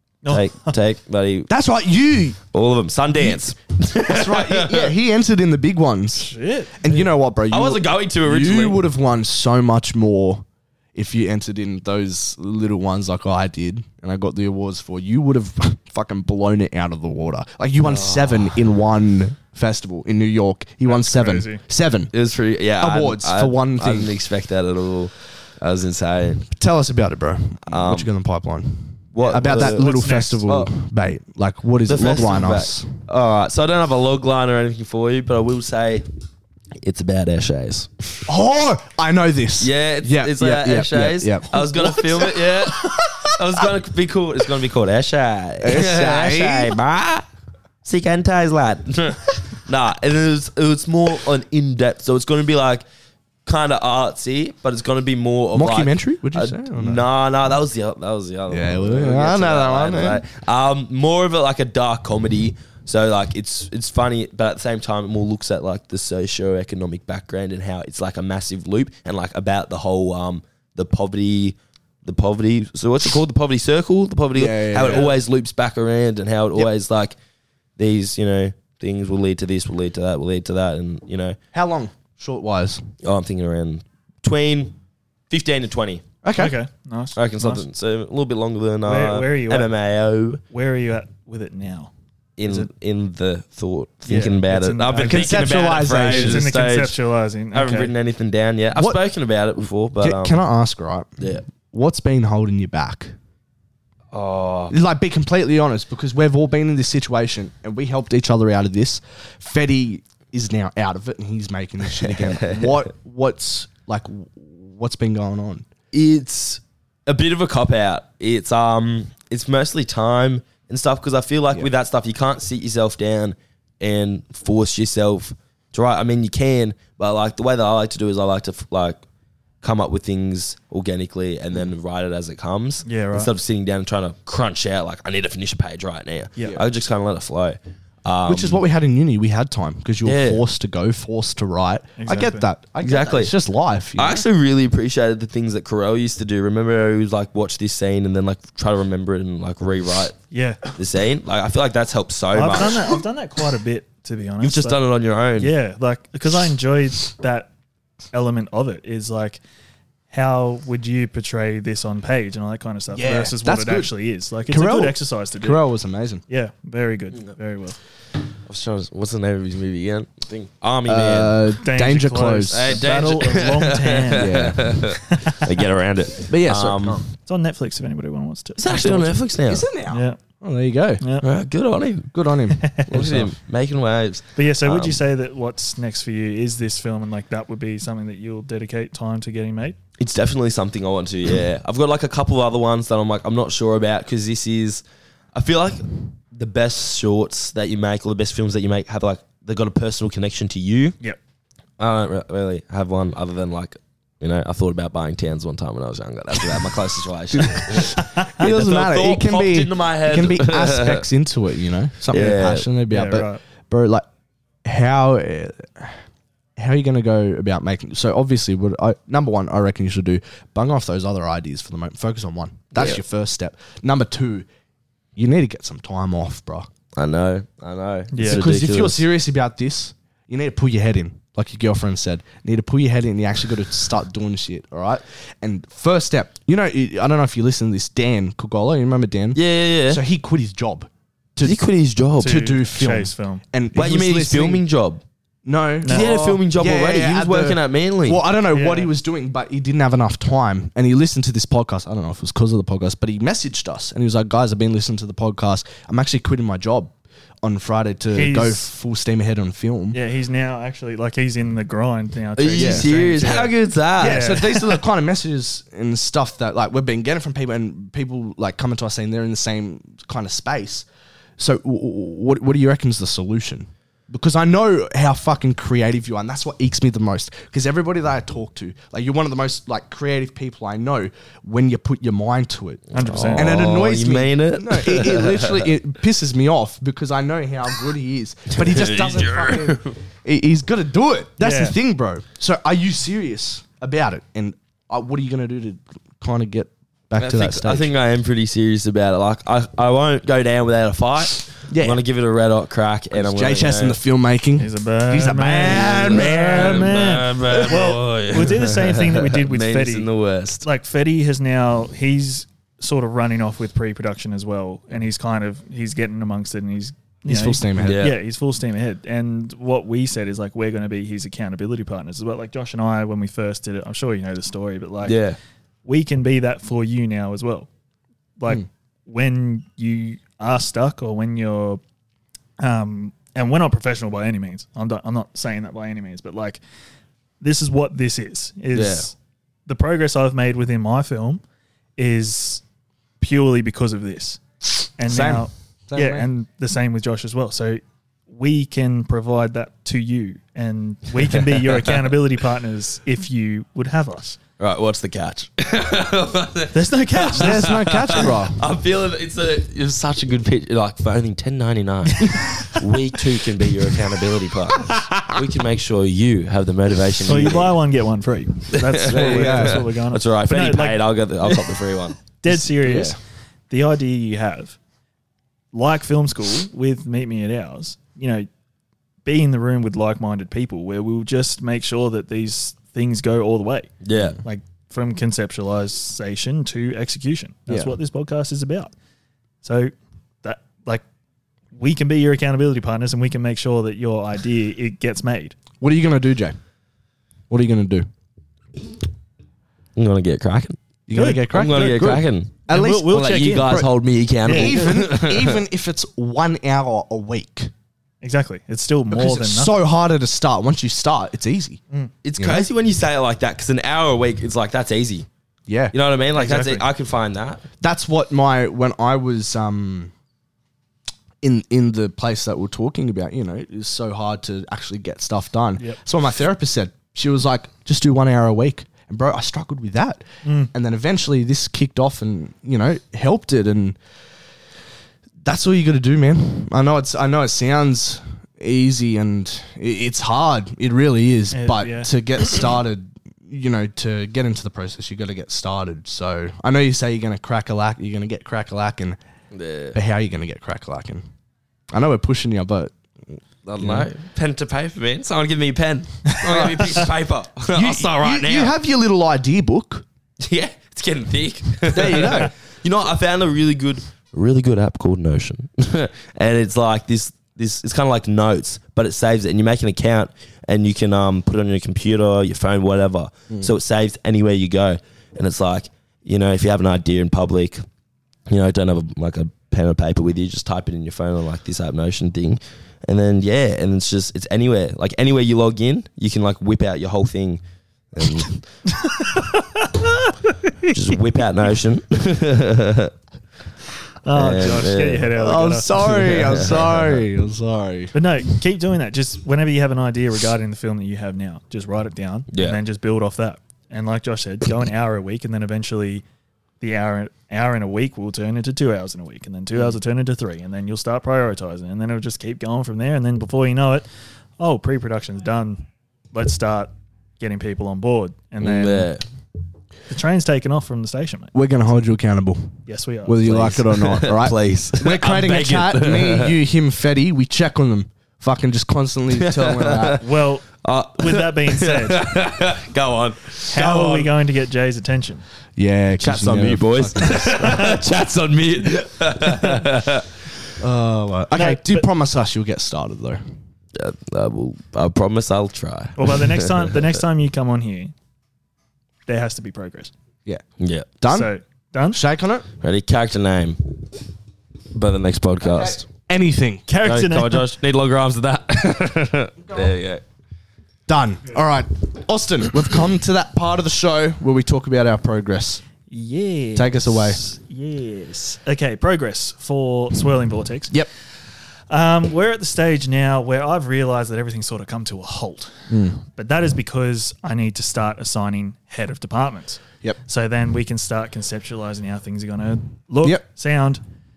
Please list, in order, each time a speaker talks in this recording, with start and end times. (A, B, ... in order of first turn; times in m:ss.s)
0:00.2-0:00.8 A
0:00.3-0:01.5 B
0:01.5-0:02.4 C
0:02.5-0:04.9 B
0:03.2-0:03.4 C
0:04.1-0:10.4 C
0:06.2-0:07.1 A
0:07.5-0:08.8 B
0:11.0-0:22.1 C
0:17.8-0:18.6 B
0:20.8-0:21.6 A
0:22.1-0:26.4 B
0:22.8-0:24.1 C
0:26.4-0:32.9 C
0:27.6-0:28.1 B
0:29.1-0:29.9 B
0:29.2-0:30.4 A
0:31.9-0:36.0 B
0:36.8-0:38.2 B
0:38.3-0:43.2 C
0:39.6-0:47.3 B
0:45.6-0:46.8 C
0:47.8-0:52.8 B
0:53.4-1:17.2 B
0:55.5-0:57.0 C
0:58.5-1:00.2 C
1:14.4-1:15.1 C
1:17.8-1:21.4 B
1:21.5-1:22.9 C
1:23.0-1:24.8 B
1:25.3-1:26.0 B
1:26.2-1:26.6 C
1:26.4-1:27.6 A
1:27.2-1:30.4 B
1:28.8-1:29.7 A
1:30.5-1:31.9 A
1:32.4-1:37.0 B
1:34.1-1:37.9 A
1:35.0-1:36.5 C
1:37.5-1:40.4 B
1:40.0-1:41.2 C
1:41.2-1:41.4 B
1:41.7-1:43.2 C
1:44.1-1:44.8 B
1:44.7-1:55.7 C
1:52.1-1:52.7 B
1:55.9-2:09.0 B
2:09.6-2:18.6 B
2:12.9-2:13.3 A
2:18.3-2:24.3 C
2:20.0-2:20.4 B
2:22.0-2:22.5 A
2:22.8-2:23.3 B
2:24.0-2:30.2 B
2:30.3-2:30.6 A
2:30.8-2:32.9 B
2:32.3-2:34.8 A
2:34.4-2:35.5 B
2:35.4-2:37.5 A
2:38.1-2:39.4 A
2:40.1-2:45.6 A
2:42.9-2:43.9 C
2:44.5-2:46.2 C
2:46.3-2:47.8 A
2:48.5-2:51.4 B
2:50.9-2:52.8 C
2:51.6-2:55.6 A
2:52.5-2:57.0 B
2:54.2-2:54.7 C
2:56.3-2:57.0 C
2:57.1-2:59.1 A
2:58.6-2:59.6 B
2:59.5-3:01.0 C
2:59.9-3:00.2 A
3:01.0-3:01.3 A
3:01.2-3:02.1 B
3:02.1-3:03.3 C
3:02.6-3:03.0 A
3:02.9-3:05.0 B
3:04.4-3:09.8 A
3:10.0-3:14.8 B
3:15.3-3:21.0 B
3:21.8-3:31.0 B
3:27.3-3:34.1 C
3:28.0-3:28.3 A
3:32.1-3:32.7 B
3:32.9-3:33.4 A
3:34.6-3:36.0 C
3:36.6-3:44.5 C
3:42.7-3:43.0 B
3:45.2-3:46.7 C
3:47.0-3:49.0 B
3:48.1-3:48.5 A
3:48.2-4:01.6 C
3:59.4-4:00.0 B
4:01.4-4:02.4 B
4:02.2-4:04.6 C
4:02.2-4:03.4 A
4:03.7-4:05.0 B
4:05.4-4:20.0 C
4:05.8-4:06.3 A
4:05.9-4:08.2 B
4:08.5-4:08.9 A
4:18.1-4:18.7 A
4:19.9-4:24.8 A
4:22.4-4:24.5 B
4:22.6-4:22.9 C
4:24.0-4:30.9 C
4:31.4-4:57.9 C
4:42.9-4:43.7 A
4:42.9-4:45.7 B
4:48.5-4:50.0 B
4:51.4-4:51.8 A
4:57.2-5:04.0 B
5:01.7-5:02.0 C
5:03.1-5:07.6 C
5:04.6-5:10.1 A
5:05.6-5:10.6 B
5:10.6-5:25.2 A
5:17.3-5:18.0 C
5:17.8-5:18.2 B
5:25.0-5:25.4 B
5:25.8-5:27.7 A
5:28.4-5:31.8 A
5:32.6-5:36.6 A
5:37.4-5:39.2 A
5:38.8-5:39.0 B
5:39.7-5:41.4 A
5:42.0-5:42.6 A
5:43.2-5:44.4 A
5:45.0-5:54.4 A
5:45.1-5:46.3 C
5:51.8-5:52.0 B
5:54.6-6:07.8 B
5:56.7-5:57.8 A
5:57.3-5:58.6 C
6:02.1-6:02.8 A
6:07.3-6:11.8 A
6:08.7-6:12.2 B
6:09.1-6:09.9 C
6:12.4-6:13.2 A
6:12.5-6:13.2 C
6:13.7-6:14.8 A
6:15.7-6:18.5 A
6:19.2-6:23.9 A
6:24.0-6:24.4 B
6:24.4-6:28.9 A
6:27.7-6:28.0 C
6:29.6-6:31.0 A
6:31.8-6:35.6 A
6:35.8-6:36.6 C
6:37.5-6:38.1 C
6:40.0-6:40.8 B
6:41.1-6:43.9 C
6:41.1-6:41.5 A
6:41.5-6:45.6 B
6:42.7-6:43.8 A
6:44.4-6:45.1 A
6:44.4-6:47.7 C
6:48.2-6:49.8 A
6:49.1-6:51.8 C
6:52.2-6:55.3 B
6:52.4-6:52.7 C
6:55.7-6:55.9 C
6:55.9-6:57.6 B
6:56.4-6:56.8 A
6:57.8-7:00.1 C
7:01.4-7:14.0 C
7:10.4-7:10.7 A
7:15.4-7:29.2 C
7:21.5-7:22.1 A
7:29.5-7:30.0 B
7:29.9-7:31.2 C
7:31.9-7:34.1 C
7:33.7-7:38.7 B
7:36.4-7:37.1 C
7:37.7-7:40.0 C
7:40.4-7:57.8 B
7:41.9-7:42.5 C
7:58.5-8:07.6 B
8:08.2-8:08.6 B
8:09.0-8:10.3 A
8:10.8-8:13.1 B
8:14.2-8:16.6 A
8:14.3-8:15.3 B
8:15.3-8:18.1 C
8:16.0-8:17.2 B
8:18.1-8:26.2 A
8:22.5-8:22.8 B
8:26.8-8:34.1 A
8:34.6-8:35.8 A
8:36.3-8:39.1 A
8:38.6-8:39.2 B
8:40.1-8:41.5 A
8:41.5-8:50.2 C
8:42.9-8:43.5 A
8:43.4-8:46.5 B
8:49.4-8:50.2 B
8:50.2-8:50.6 A
8:50.8-8:54.3 B
8:51.2-8:52.3 A
8:53.7-8:55.4 A
8:55.8-8:57.8 C
8:56.2-9:00.3 B
8:57.5-8:58.0 A
9:00.8-9:03.4 C
9:01.5-9:02.1 A
9:04.0-9:07.1 B
9:06.2-9:08.1 A
9:09.3-9:10.1 A
9:10.8-9:11.1 B
9:11.2-9:11.5 C
9:11.3-9:12.2 A
9:12.1-9:12.7 C
9:12.8-9:14.0 B
9:14.9-9:16.1 B
9:15.7-9:16.8 C
9:16.9-9:17.7 A
9:17.0-9:20.2 B
9:21.1-9:25.8 C
9:26.1-9:31.0 A
9:26.8-9:27.4 C
9:31.9-9:44.0 A
9:35.9-9:36.2 C